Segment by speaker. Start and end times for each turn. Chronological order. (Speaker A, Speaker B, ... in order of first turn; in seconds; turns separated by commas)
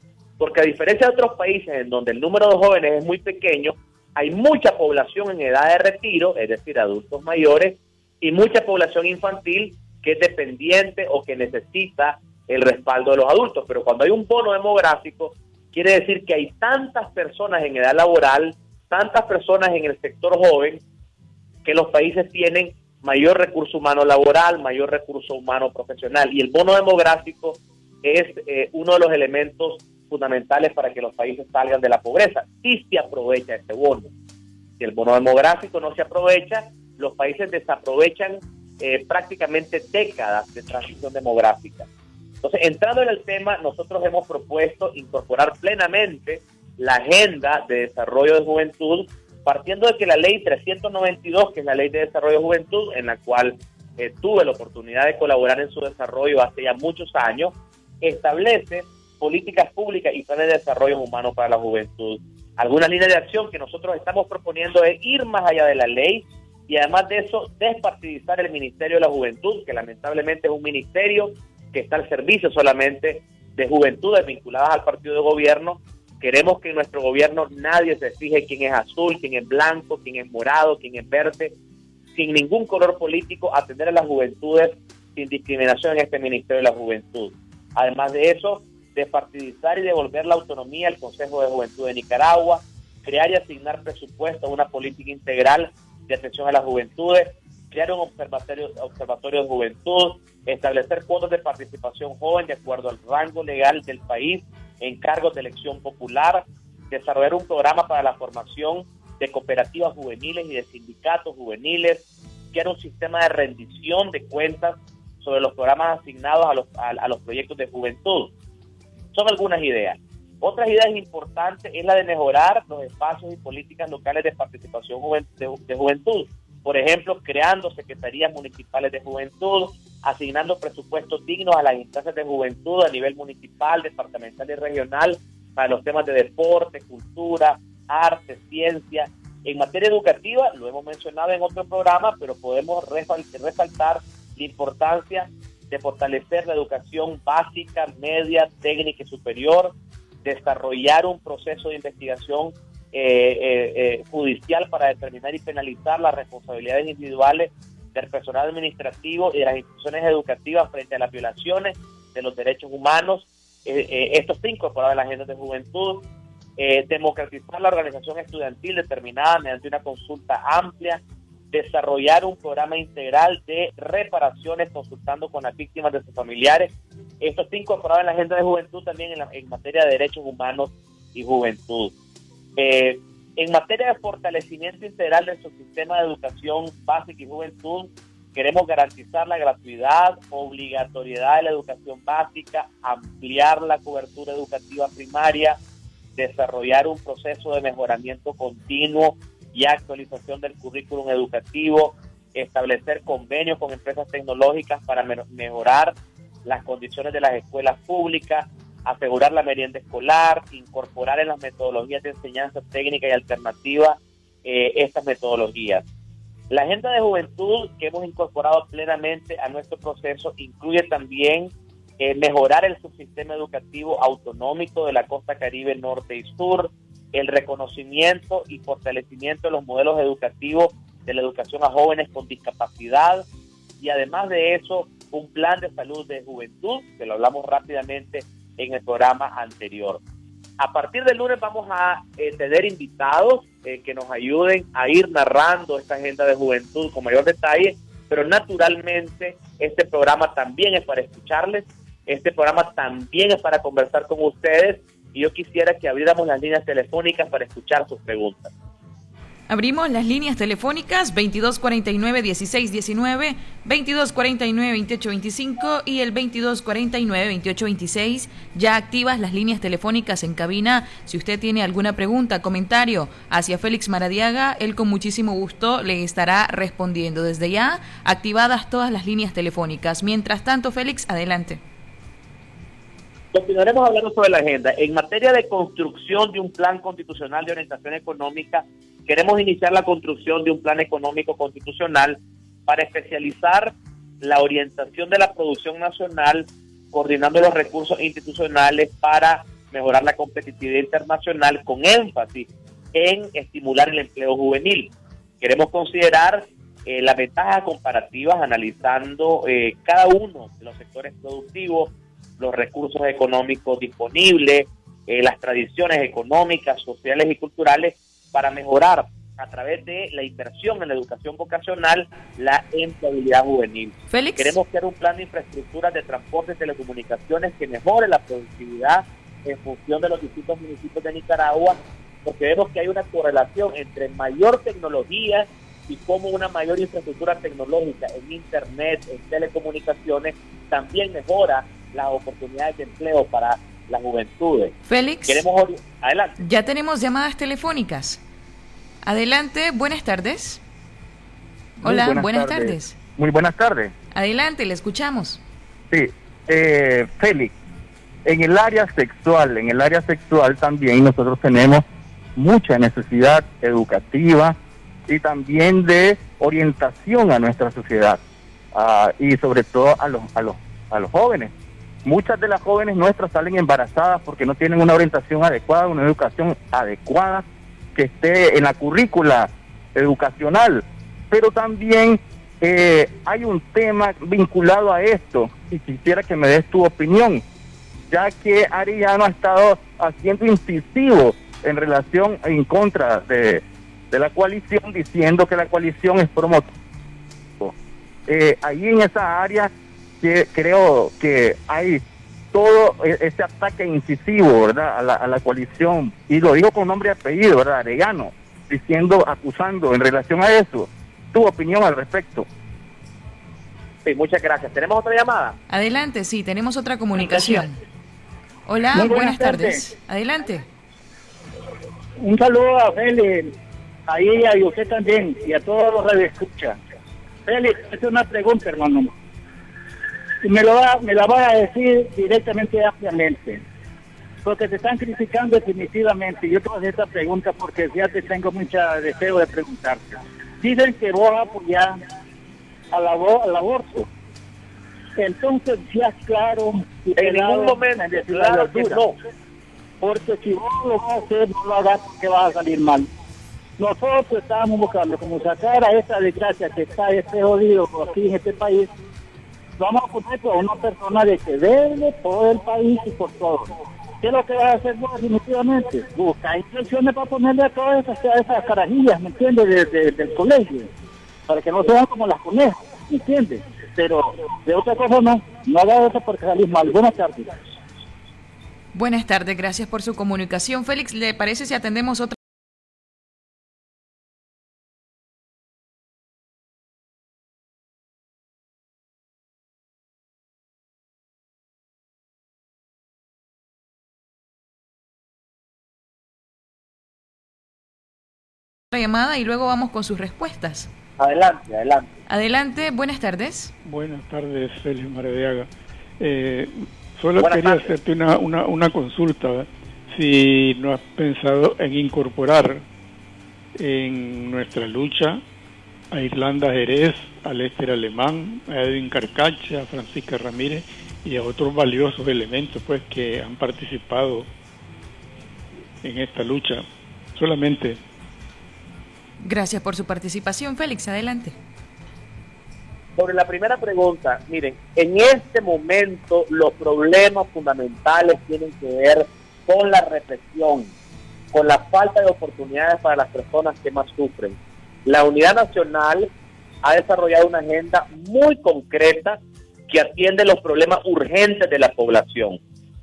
Speaker A: 0.4-20.8, Speaker A: 21.6-34.1, Speaker A: 34.8-41.9, Speaker A: 42.4-81.5, Speaker A: 82.1-118.3, Speaker A: 119.1-166.0, Speaker A: 166.6-181.9, Speaker A: 182.6-195.6, Speaker A: 196.2-215.8, Speaker A: 216.5-233.2, Speaker A: 233.8-240.0, Speaker A: 240.6-258.5, Speaker B: 259.5-281.6, Speaker A: 283.3-344.7, Speaker B: 324.1-324.6, Speaker B: 344.9-345.4, Speaker A: 345.3-346.4, Speaker B: 346.4-348.2, Speaker B: 349.0-350.6, Speaker B: 351.8-352.9, Speaker C: 351.8-353.9, Speaker B: 354.1-355.4, Speaker C: 355.9-357.5, Speaker C: 358.2-361.8, Speaker C: 362.4-364.6, Speaker C: 365.1-368.2, Speaker C: 368.7-371.5, Speaker C: 372.0-387.4, Speaker C: 388.1-396.7, Speaker C: 398.3-402.0, Speaker C: 402.5-412.5, Speaker A: 414.0-415.6, Speaker B: 415.7-417.8, Speaker B: 418.6-420.6, Speaker D: 418.9-419.9, Speaker D: 422.2-423.5, Speaker D: 424.1-426.8, Speaker D: 427.4-429.1, Speaker D: 430.4-433.6, Speaker D: 434.4-441.9, Speaker D: 442.9-444.1, Speaker D: 445.1-449.0, Speaker A: 447.2-449.1, Speaker D: 450.0-453.1, Speaker D: 453.8-458.9, Speaker D: 459.8-470.9, Speaker D: 471.5-477.5, Speaker B: 478.9-482.4, Speaker B: 498.9-500.9, Speaker A: 501.2-502.1, Speaker B: 502.3-503.7, Speaker E: 503.8-512.8, Speaker A: 507.4-507.9, Speaker E: 513.8-515.4, Speaker E: 516.1-524.5, Speaker E: 526.0-528.0, Speaker B: 529.4-531.6, Speaker A: 533.2-540.9, Speaker A: 541.5-546.3, Speaker A: 546.8-552.6